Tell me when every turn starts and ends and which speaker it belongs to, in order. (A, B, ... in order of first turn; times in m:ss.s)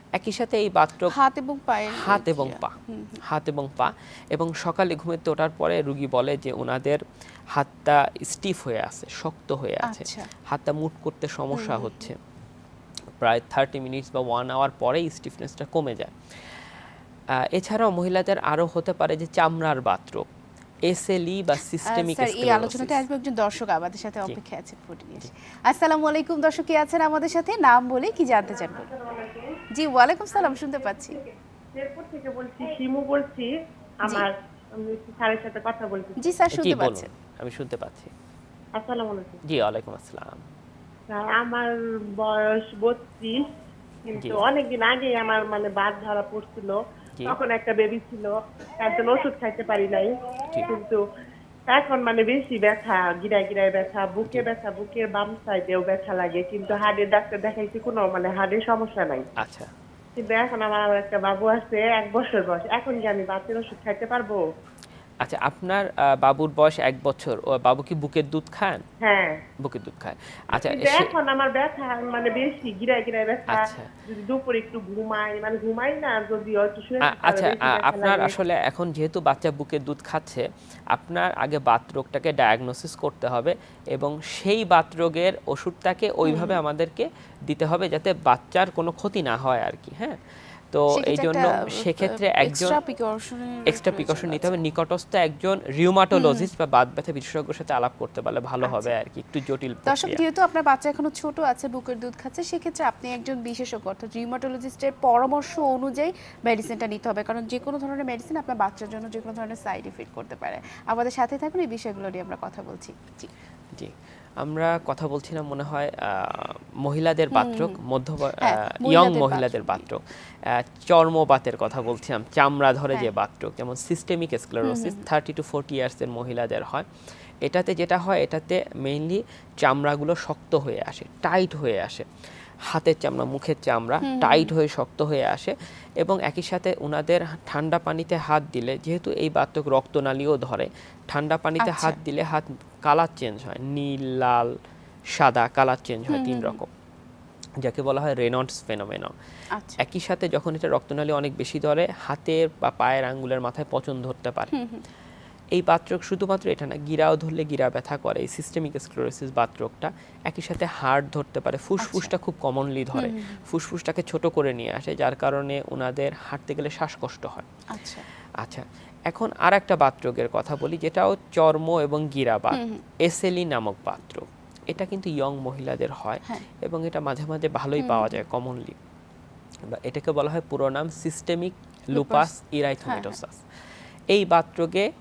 0:00.2-0:01.1 A
0:01.1-0:03.2 B
0:01.9-0:07.0 A
0:07.5-0:12.2 A
0:09.8-0:10.3 B
0:11.5-0:12.0 B
0:13.2-0:16.1 A
0:17.4-0:20.3 A
0:20.9-0:23.0 A
0:21.9-0:28.9 B
0:28.5-0:29.6 C
0:29.7-0:31.2 B
0:30.4-0:33.5 C
0:34.0-0:36.2 C
0:36.2-0:37.1 B
0:36.5-0:38.1 A
0:38.8-0:39.4 C
0:39.5-0:40.4 A
0:41.1-0:43.4 C
0:44.0-0:51.0 C
0:44.2-0:44.4 A
0:51.7-0:59.3 C
0:59.4-0:59.7 A
1:00.2-1:04.4 C
1:05.2-1:08.8 A
1:09.0-1:09.4 C
1:09.6-1:11.1 A
1:10.6-1:18.4 C
1:13.5-1:13.9 A
1:17.0-1:30.2 A
1:26.3-1:26.6 B
1:30.7-1:32.8 A
1:31.0-1:34.6 B
1:33.7-1:40.2 A
1:36.1-1:36.5 B
1:38.6-1:38.9 B
1:39.9-1:53.3 B
1:53.7-2:06.9 A
1:57.3-1:57.8 B
1:58.4-1:59.8 B
2:04.6-2:05.0 B
2:07.4-2:12.1 A
2:12.7-2:24.5 A
2:14.1-2:14.5 B
2:21.6-2:22.0 B
2:25.2-2:26.7 A
2:26.1-2:26.6 B
2:27.6-2:29.1 A
2:29.8-2:34.5 A
2:34.5-2:34.8 B
2:35.5-2:47.5 A
2:41.8-2:42.1 B
2:43.0-2:43.4 B
2:47.7-2:48.0 B
2:48.4-2:58.8 A
2:52.5-2:52.8 B
2:57.8-2:58.2 B
2:59.7-3:03.4 A
3:01.9-3:02.3 B
3:02.9-3:03.2 B
3:04.1-3:04.9 A